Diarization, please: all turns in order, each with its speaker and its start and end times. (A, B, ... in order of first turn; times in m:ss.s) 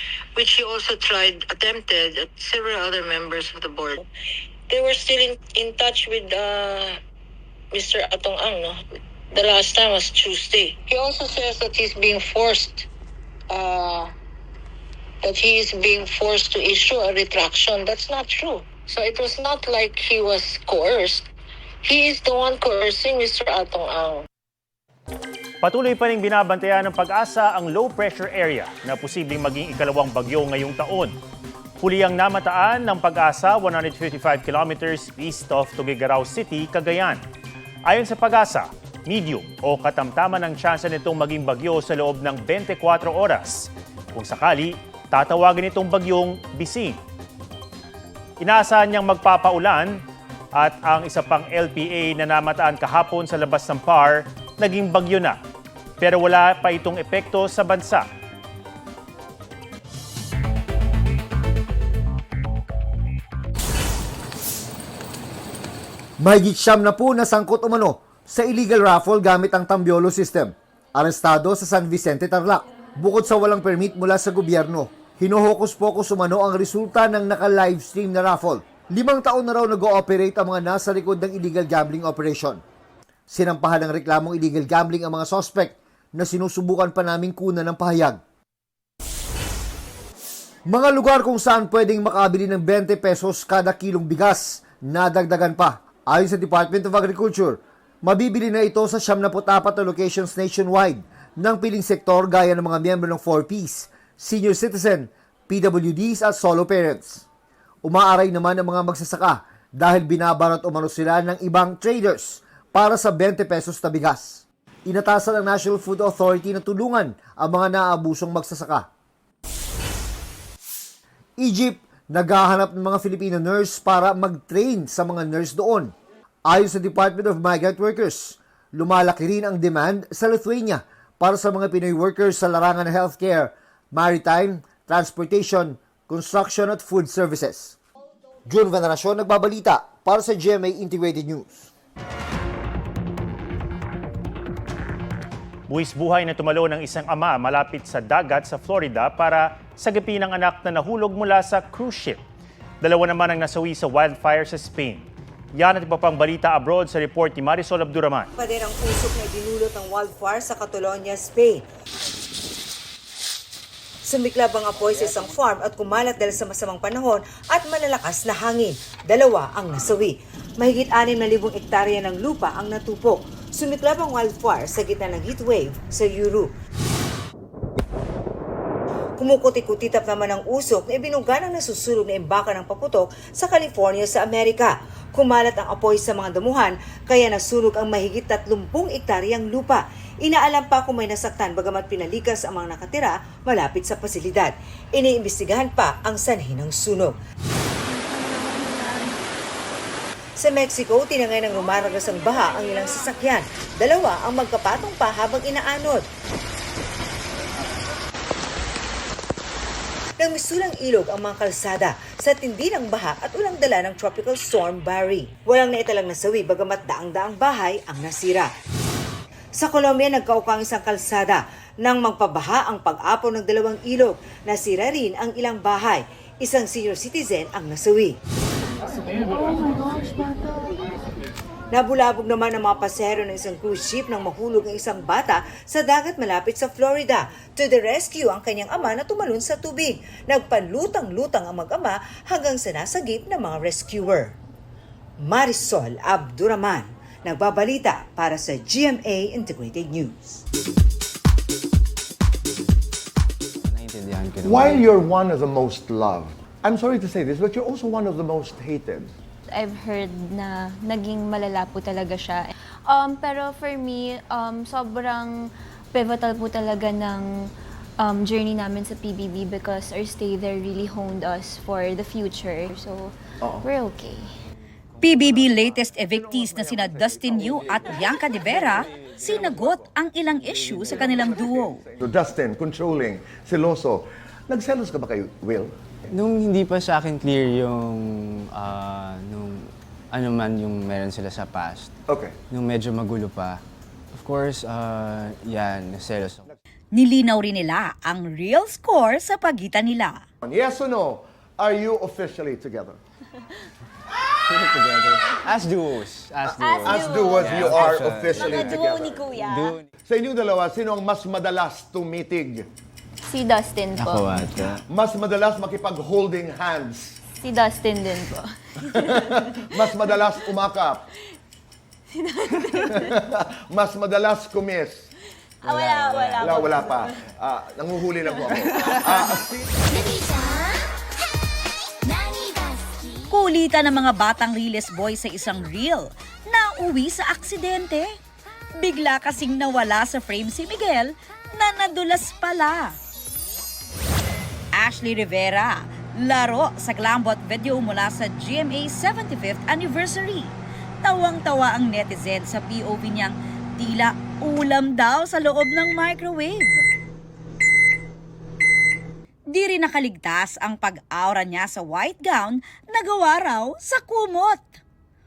0:00.4-0:04.1 A
0:04.7-0:07.0 A
0:07.7-0:08.8 A
0:09.3-0:12.9 A
0:13.5-0:14.1 A
0:15.2-0:21.3 A
0:21.8-0:24.3 A
0:25.6-0:31.2 B
0:31.8-0:37.2 B
0:37.9-0:47.0 B
0:48.4-0:50.0 B
0:50.5-0:55.4 B
0:56.0-0:58.1 B
1:06.2-1:22.6 C
1:23.3-1:28.2 C
1:30.7-1:47.2 C
1:47.8-1:58.9 C
2:01.4-2:05.9 C
2:06.5-2:17.8 C
2:18.5-2:21.7 C
2:25.7-2:32.2 B
2:32.8-2:38.3 B
2:38.4-2:41.7 D
2:44.0-2:56.5 D
2:59.2-3:17.2 D
3:20.4-3:26.1 D
3:30.2-3:38.5 D
3:39.6-3:48.2 D
3:51.7-4:04.4 D
4:05.2-4:10.4 D
4:13.6-4:15.0 E
4:14.4-4:19.2 F
4:19.5-4:34.3 G
4:33.4-4:33.7 F
4:35.0-4:41.8 H
4:40.6-4:40.8 E
4:40.8-4:45.8 F
4:46.1-4:51.9 E
4:52.1-4:52.4 F
4:52.5-4:56.5 E
4:56.9-5:00.2 H
5:00.4-5:03.0 F
5:04.5-5:09.9 E
5:06.6-5:07.5 G
5:06.6-5:09.4 F
5:08.3-5:09.7 G
5:10.1-5:12.7 F
5:13.2-5:14.6 G
5:14.0-5:14.8 E
5:14.9-5:17.2 F
5:17.4-5:18.5 G
5:19.0-5:21.0 F
5:22.2-5:22.9 G
5:22.9-5:25.1 F
5:25.6-5:29.5 F
5:25.7-5:27.0 G
5:33.3-5:38.1 H
5:38.8-5:43.0 H
5:44.8-5:56.8 H
5:59.5-6:04.7 H